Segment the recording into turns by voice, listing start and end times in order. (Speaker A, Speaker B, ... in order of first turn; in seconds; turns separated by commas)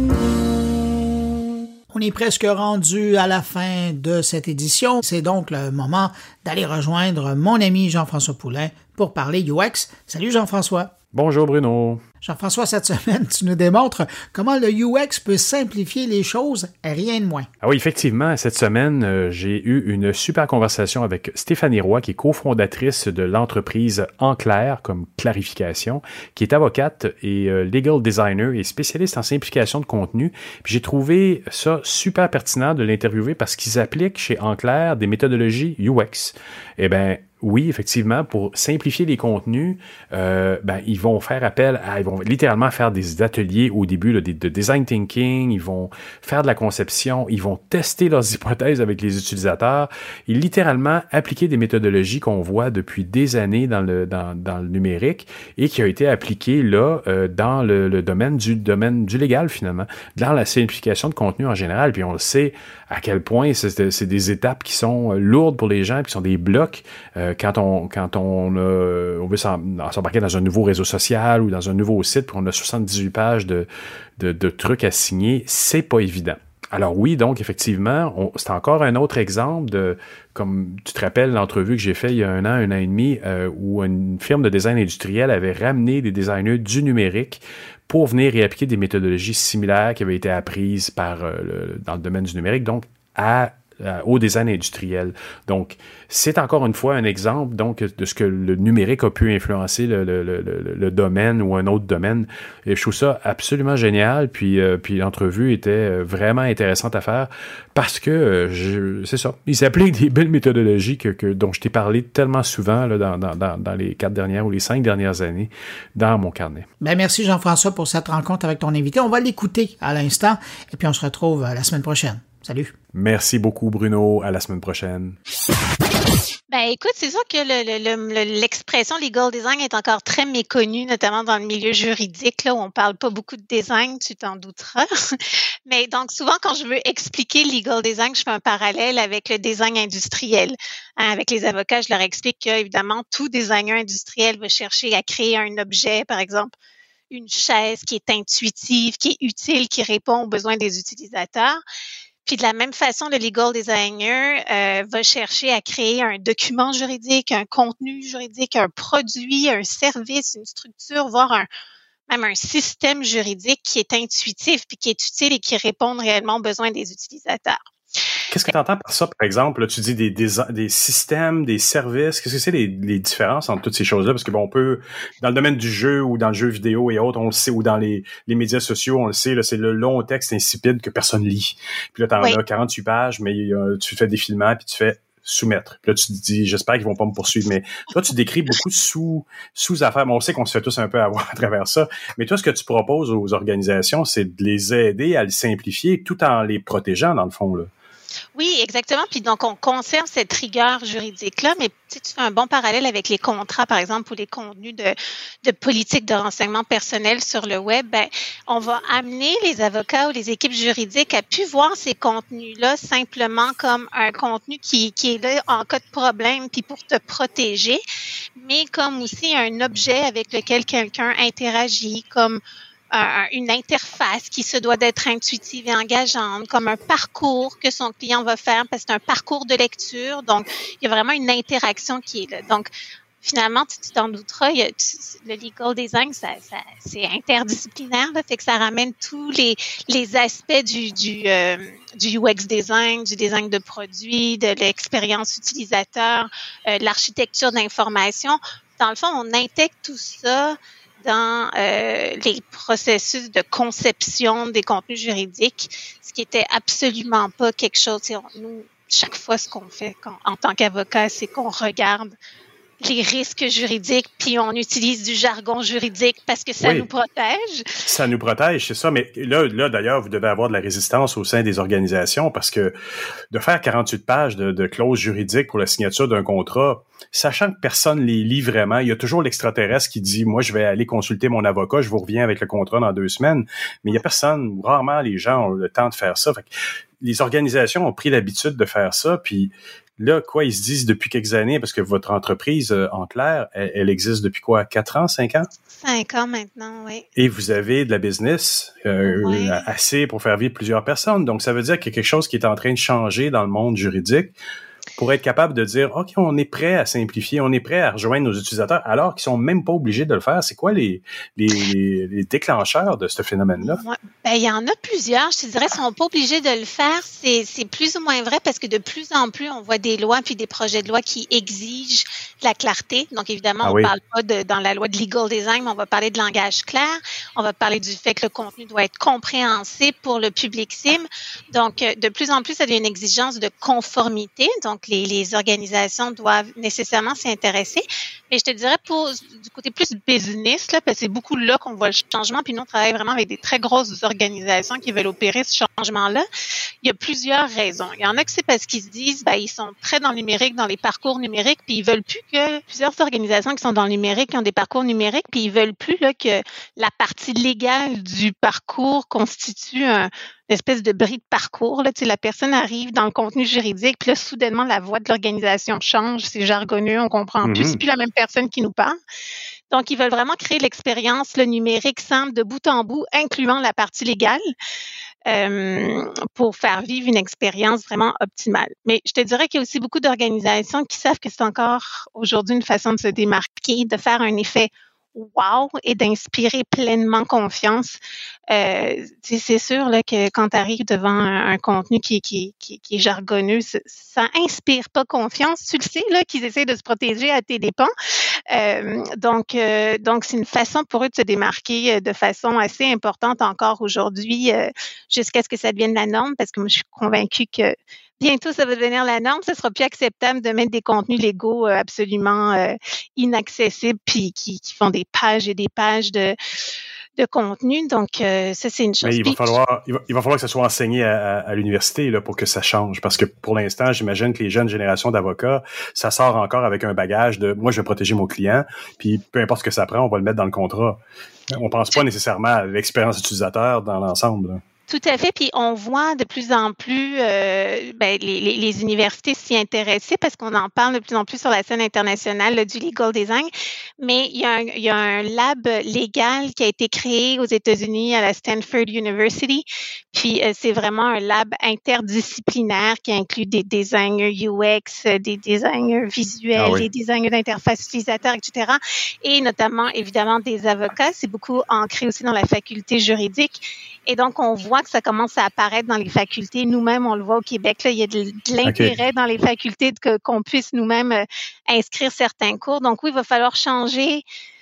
Speaker A: 1.9-10.9, Speaker B: 11.1-12.0, Speaker A: 12.2-17.5, Speaker B: 17.6-116.7, Speaker A: 116.8-122.7, Speaker B: 122.9-125.2, Speaker C: 126.5-134.9, Speaker C: 135.7-146.6, Speaker C: 147.1-151.6, Speaker C: 152.3-161.5, Speaker C: 162.1-167.7, Speaker B: 168.3-197.7, Speaker C: 198.3-217.8, Speaker C: 218.4-222.4, Speaker C: 222.9-232.7, Speaker C: 233.2-262.2, Speaker C: 262.8-267.8, Speaker B: 266.6-266.9, Speaker B: 267.9-272.7, Speaker B: 273.3-286.5, Speaker B: 287.0-295.5, Speaker C: 295.7-297.1, Speaker B: 297.2-304.4, Speaker C: 299.0-299.7, Speaker B: 305.0-313.8, Speaker C: 313.6-346.2, Speaker B: 323.6-323.9, Speaker C: 346.8-369.0, Speaker B: 367.4-367.8, Speaker C: 369.7-374.4, Speaker C: 375.3-388.0, Speaker C: 388.5-397.9, Speaker C: 398.5-416.4, Speaker C: 417.2-419.6, Speaker B: 419.0-434.6, Speaker C: 434.9-474.2, Speaker B: 456.6-456.9, Speaker B: 468.6-469.0